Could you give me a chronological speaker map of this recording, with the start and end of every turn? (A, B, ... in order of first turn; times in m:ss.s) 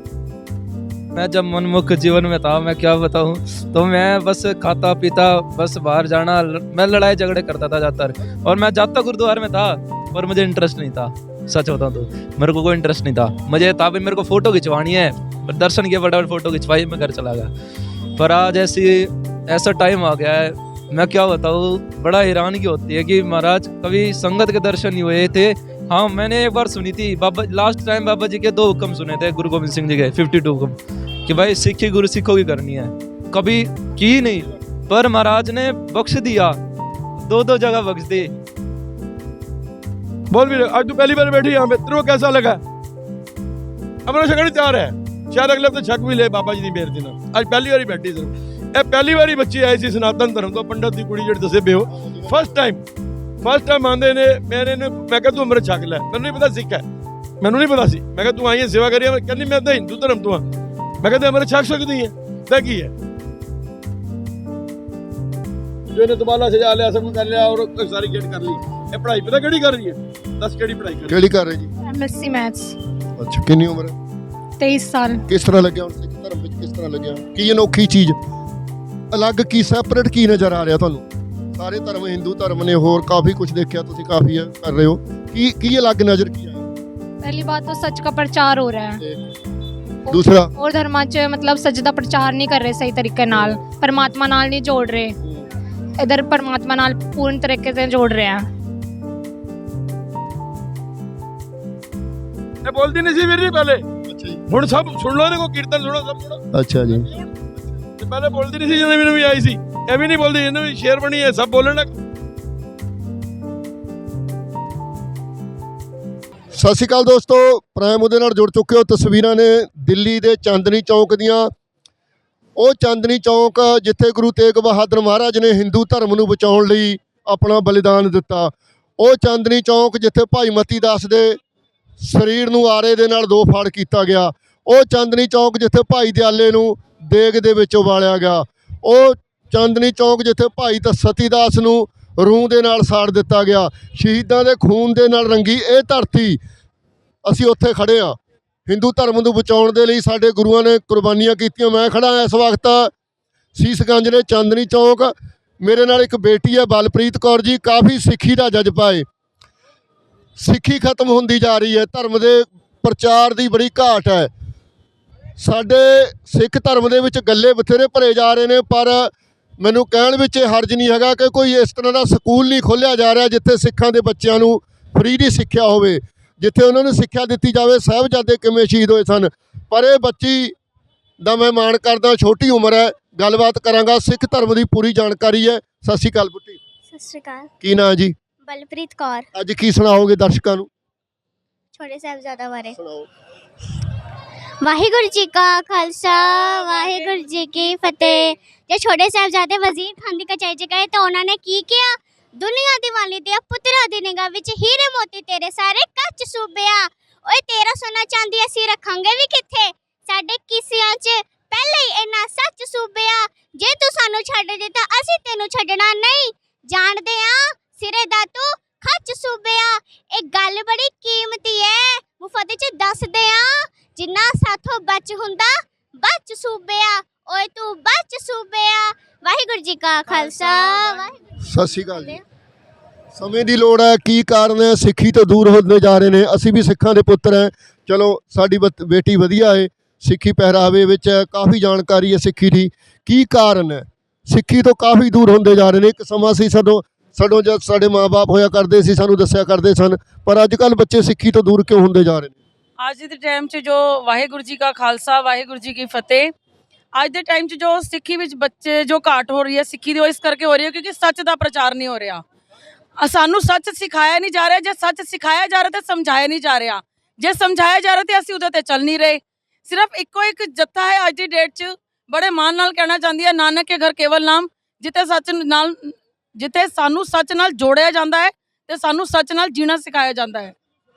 0:01.2-0:17.5 A
0:18.2-0:30.8 A
0:31.3-0:36.6 A
0:37.2-0:38.3 A
0:40.3-0:42.6 B
0:44.1-0:52.8 B
0:51.9-0:52.4 C
0:53.4-0:56.8 B
0:57.4-1:00.4 B
1:01.0-1:02.9 B
1:05.9-1:11.2 B
1:11.1-1:11.7 C
1:11.8-1:12.8 D
1:13.2-1:14.0 C
1:14.6-1:15.2 D
1:15.3-1:18.2 C
1:19.1-1:26.7 C
1:27.2-1:29.0 D
1:30.1-1:30.5 C
1:30.6-1:35.2 D
1:33.3-1:33.6 C
1:35.2-1:35.5 C
1:36.0-1:38.4 D
1:42.6-1:43.8 B
1:44.1-1:44.4 C
1:44.5-1:46.4 B
1:46.5-1:47.1 C
1:48.0-1:51.9 B
1:56.5-2:01.5 C
2:02.6-2:11.4 C
2:12.0-2:26.4 C
2:27.2-2:32.9 C
2:33.6-2:39.1 C
2:40.4-2:44.3 C
2:45.4-3:00.6 C
3:01.2-3:06.6 C
3:06.9-3:07.5 E
3:07.6-3:08.2 C
3:08.4-3:09.3 E
3:09.3-3:10.7 C
3:11.7-3:12.8 E
3:12.7-3:13.1 C
3:14.6-3:51.2 E
3:50.2-3:50.6 F
3:51.4-3:52.2 C
3:51.9-3:52.2 E
3:53.1-4:12.4 C
4:12.8-4:16.3 F
4:17.0-4:22.2 F
4:23.0-4:40.6 F